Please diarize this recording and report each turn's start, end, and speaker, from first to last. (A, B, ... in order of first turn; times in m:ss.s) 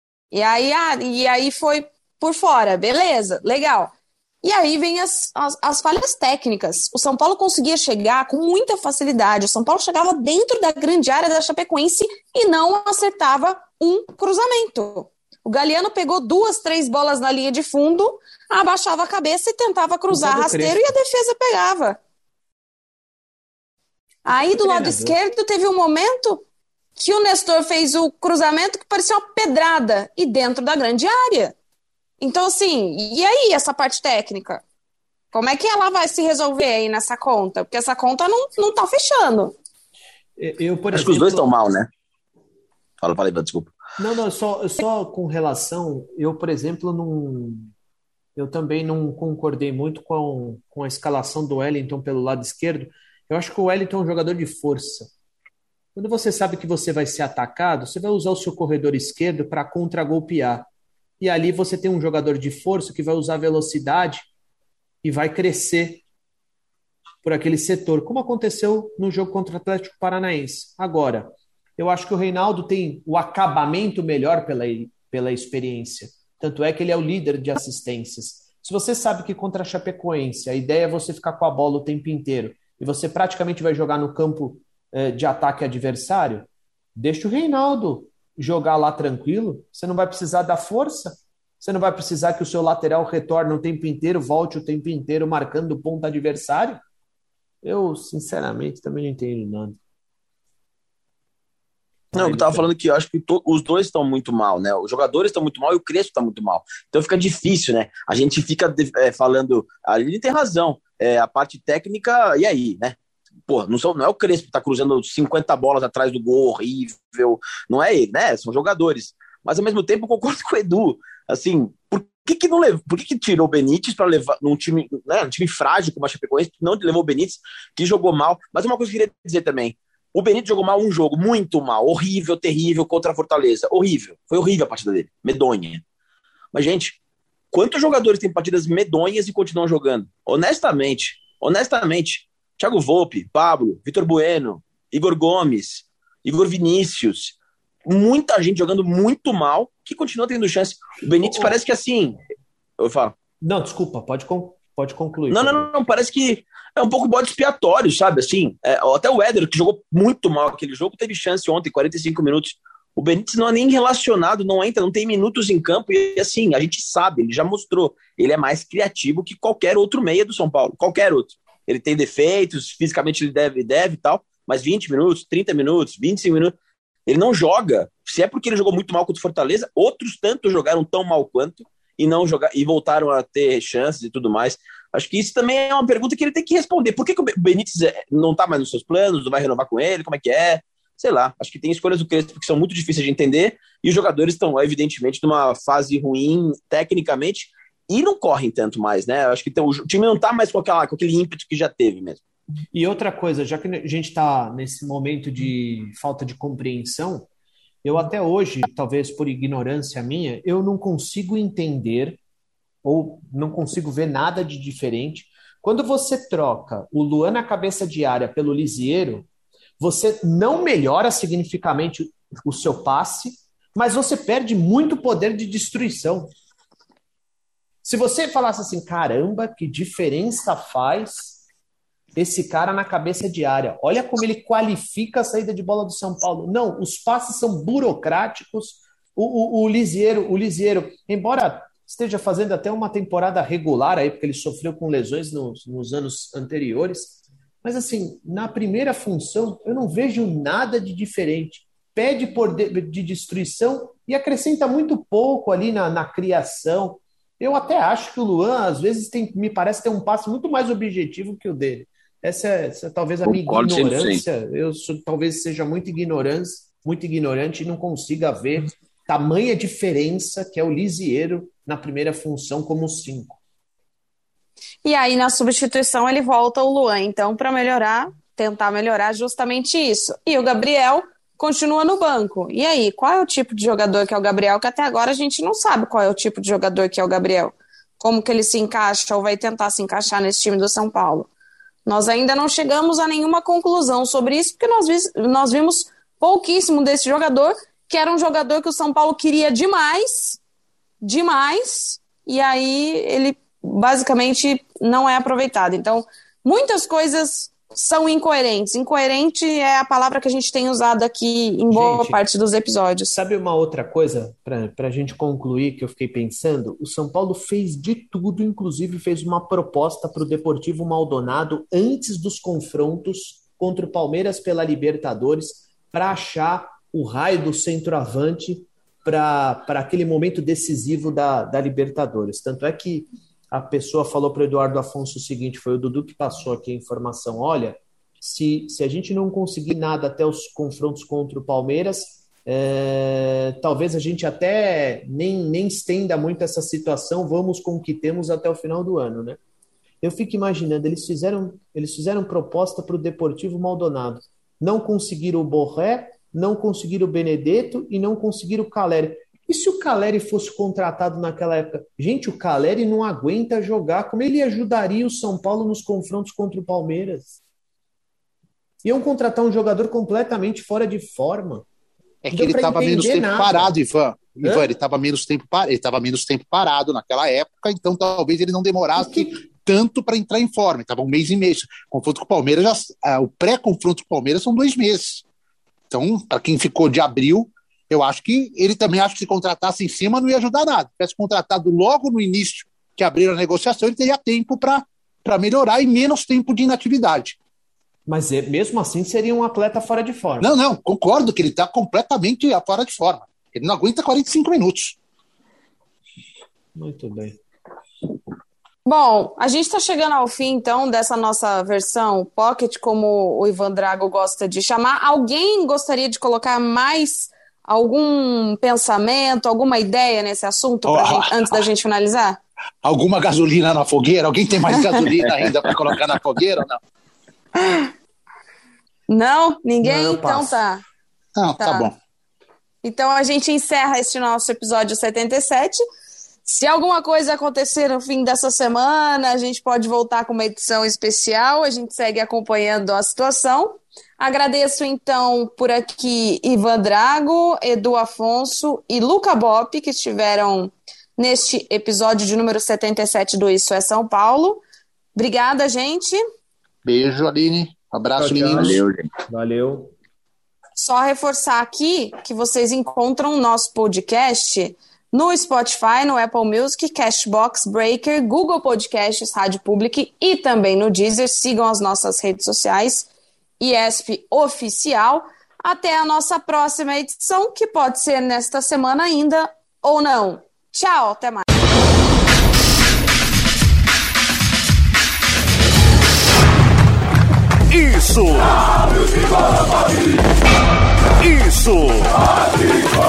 0:00.3-0:22.0 A
0:20.1-0:20.9 B
0:24.2-0:26.4 A
0:24.5-0:25.2 B
0:27.0-0:31.5 A
0:32.2-0:34.6 A
0:35.3-0:39.5 A
0:40.4-0:41.5 B
0:40.9-0:41.9 C
0:43.0-0:43.7 C
0:44.0-0:47.7 B
0:48.4-0:55.1 B
0:55.9-1:00.7 B
1:01.2-1:04.3 B
1:05.0-1:06.0 B
1:07.2-1:36.8 B
1:37.6-1:39.8 B
1:42.1-1:42.7 B
1:42.1-1:53.0 C
1:53.5-2:15.8 C
2:16.5-2:17.0 C
2:17.5-2:32.2 C
2:31.2-2:31.5 B
2:32.8-2:33.1 C
2:33.4-2:35.7 B
2:35.3-2:56.5 C
2:57.1-3:22.2 C
3:22.7-3:27.3 B
3:27.8-3:32.2 B
3:32.8-3:39.3 B
3:39.8-3:46.3 B
3:47.8-3:51.4 B
3:52.2-4:33.4 B
4:23.2-4:24.2 C
4:34.8-4:51.3 A
4:51.8-5:00.4 A
5:01.0-5:13.1 A
5:11.7-5:12.2 B
5:13.1-5:49.4 B
5:50.0-6:07.4 B
6:08.8-6:11.6 B
6:12.2-6:25.2 D
6:12.3-6:13.8 B
6:14.4-6:14.7 B
6:19.0-6:19.4 B
6:25.9-6:37.4 D
6:38.1-6:40.6 B
6:40.4-6:45.0 D
6:46.7-6:47.4 B
6:48.8-7:02.4 A
7:00.8-7:01.7 D
7:02.8-7:06.8 D
7:07.6-7:07.9 A
7:09.1-7:10.8 A
7:09.8-7:10.6 B
7:11.4-7:12.0 D
7:11.6-7:11.9 A
7:12.8-7:15.8 A
7:16.4-7:34.6 A
7:35.2-7:36.2 A
7:36.8-7:38.8 D
7:38.2-7:39.9 B
7:38.6-7:39.1 C
7:40.8-7:53.1 A
7:53.6-8:01.4 A
8:07.7-8:08.7 E
8:11.2-8:12.3 E